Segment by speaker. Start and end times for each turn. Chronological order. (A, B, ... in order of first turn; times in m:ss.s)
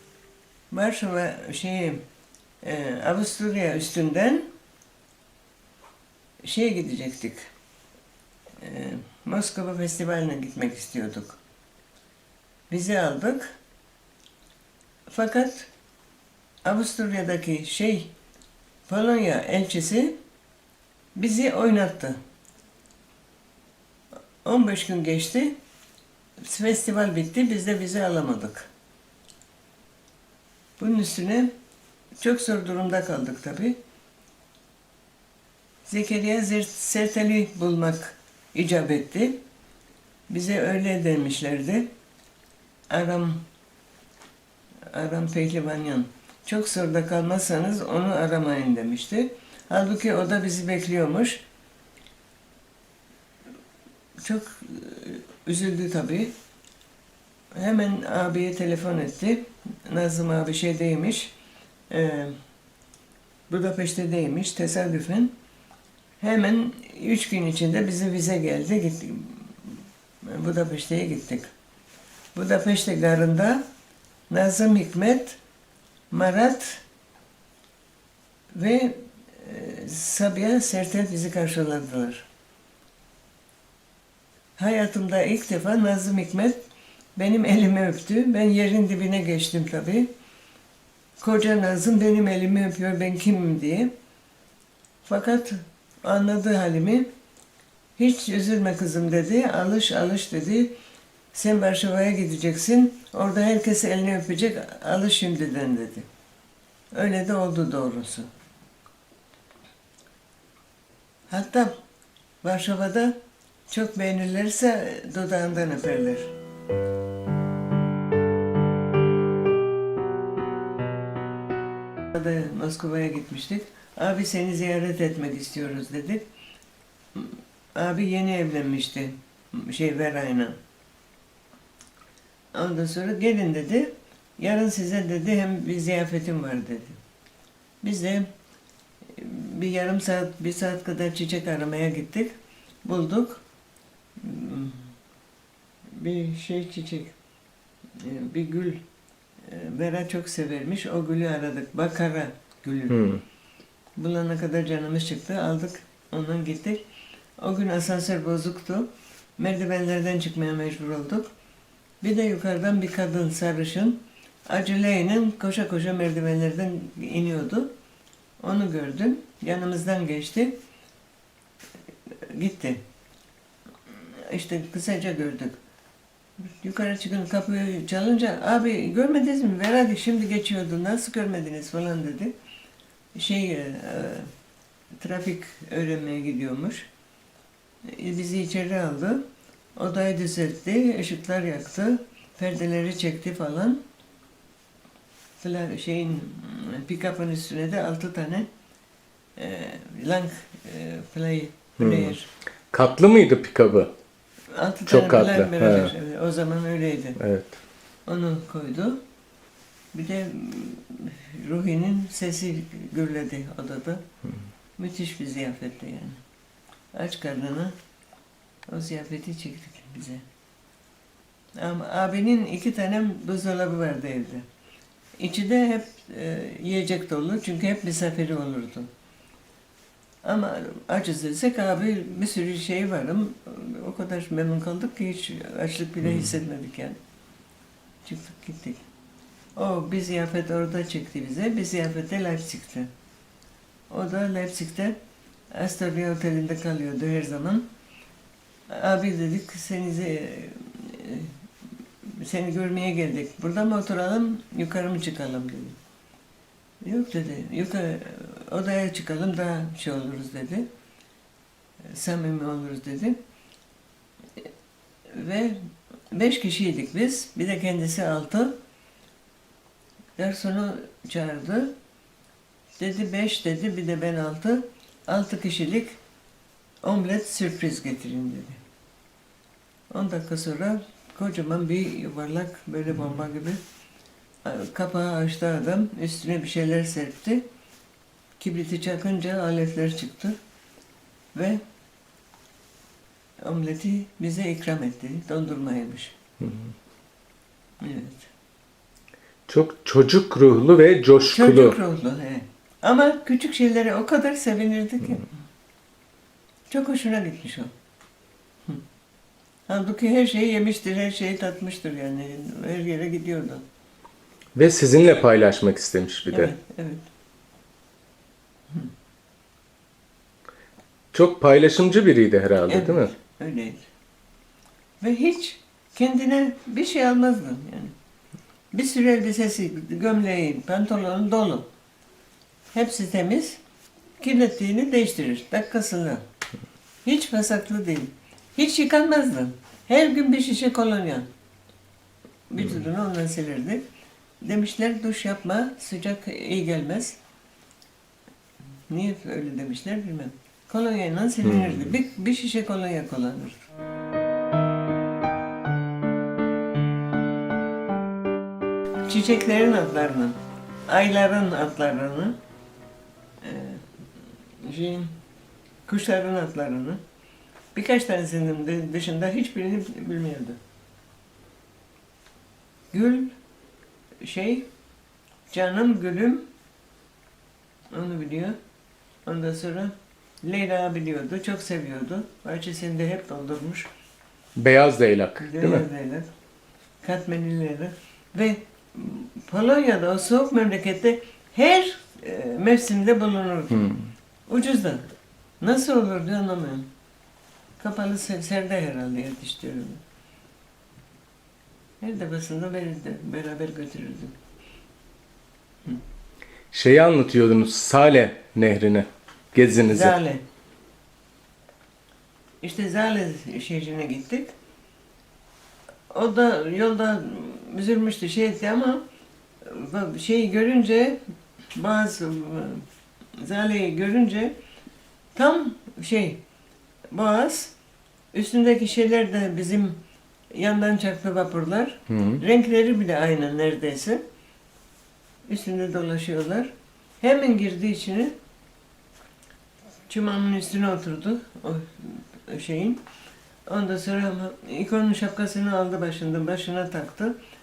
0:00.7-0:02.0 A
0:02.6-0:04.5 A
0:06.4-0:07.5 A
0:08.6-0:11.4 A
0:12.7-0:13.6 A
0:15.1-0:15.7 A
0:16.6-0:18.1 A
0:18.9-0:20.2 A
0:21.1-0:22.2 A
0:24.4-0:25.5 A
0:26.4-0:28.7 A
0:30.8-0:31.5 A
0:32.2-0:33.8 A
0:35.8-0:39.4 A
0:40.3-0:41.9 A
0:42.9-0:43.4 A
0:44.9-0:51.4 A
0:54.2-0:56.3 A
0:57.5-1:01.3 A
1:01.9-1:02.4 A
1:03.5-1:05.3 A
1:06.2-1:09.7 A
1:10.2-1:11.5 A
1:12.3-1:13.6 A
1:14.3-1:15.4 A
1:16.1-1:16.8 A
1:18.5-1:22.3 A
1:24.6-1:26.6 A
1:27.2-1:30.1 A
1:31.2-1:33.9 A
1:35.0-1:37.1 A
1:38.0-1:40.7 A
1:41.3-1:46.1 A
1:46.9-1:48.3 A
1:51.3-1:51.7 A
1:52.4-1:53.2 A
1:53.7-1:56.3 A
2:02.1-2:06.2 A
2:07.1-2:10.6 A
2:12.5-2:17.0 A
2:17.8-2:18.3 A
2:19.2-2:23.4 A
2:24.2-2:24.9 A
2:25.9-2:27.1 A
2:28.0-2:28.8 A
2:29.4-2:33.1 A
2:32.9-2:33.2 B
2:34.0-2:36.8 A
2:37.4-2:41.3 A
2:42.0-2:47.7 A
2:48.4-2:50.5 A
2:52.2-2:52.8 A
2:54.1-2:55.6 A
2:56.4-3:02.3 A
3:03.1-3:04.3 A
3:05.0-3:06.9 A
3:07.9-3:09.2 A
3:09.8-3:13.8 A
3:15.4-3:18.5 A
3:19.4-3:22.3 A
3:21.8-3:22.1 B
3:22.7-3:23.9 B
3:24.5-3:27.2 A
3:24.9-3:25.9 B
3:27.2-3:27.6 B
3:28.0-3:29.0 A
3:29.9-3:34.0 A
3:34.8-3:36.2 A
3:36.9-3:37.7 A
3:38.7-3:40.2 A
3:41.6-3:44.4 A
3:45.2-3:48.9 A
3:50.2-3:57.0 A
3:58.0-3:58.8 A
3:59.6-4:02.9 A
4:03.9-4:05.0 A
4:05.5-4:07.6 A
4:08.7-4:11.4 A
4:12.0-4:15.8 A
4:16.8-4:20.7 A
4:21.9-4:23.2 A
4:25.1-4:28.5 A
4:30.2-4:31.7 A
4:32.8-4:36.0 A
4:36.8-4:38.6 A
4:39.9-4:43.6 A
4:44.4-4:47.4 A
4:48.4-4:50.4 A
4:51.3-4:51.6 A
4:53.4-4:56.2 A
4:56.4-4:56.7 B
4:57.8-4:58.3 A
4:59.5-5:01.8 B
5:01.2-5:05.3 A
5:06.7-5:07.7 A
5:09.7-5:13.6 A
5:14.6-5:16.5 B
5:16.3-5:17.0 A
5:21.1-5:23.1 B
5:22.7-5:23.9 A
5:25.0-5:27.9 A
5:28.7-5:31.7 A
5:32.7-5:33.6 A
5:34.2-5:36.2 A
5:37.0-5:41.3 A
5:42.5-5:43.8 A
5:44.4-5:47.2 A
5:48.9-5:53.7 A
5:59.0-6:02.4 A
6:03.4-6:03.9 A
6:04.6-6:05.1 A
6:05.8-6:07.0 A
6:07.7-6:10.6 A
6:12.9-6:13.3 A
6:14.2-6:14.7 A
6:15.5-6:16.5 A
6:17.9-6:18.6 A
6:19.2-6:23.9 A
6:24.6-6:25.8 B
6:25.4-6:26.3 A
6:27.0-6:33.9 A
6:33.7-6:34.0 B
6:34.5-6:35.0 A
6:35.6-6:36.9 A
6:37.8-6:40.0 A
6:42.0-6:44.3 A
6:46.7-6:50.1 B
6:49.9-6:50.4 A
6:52.6-6:54.5 A
6:56.1-6:59.0 A
6:59.6-7:01.2 A
7:01.7-7:02.8 A
7:03.4-7:04.5 A
7:05.3-7:06.4 A
7:07.1-7:07.7 A
7:08.3-7:10.0 A
7:10.5-7:14.2 A
7:12.1-7:12.4 B
7:15.5-7:18.4 A
7:20.1-7:23.0 A
7:23.7-7:27.4 A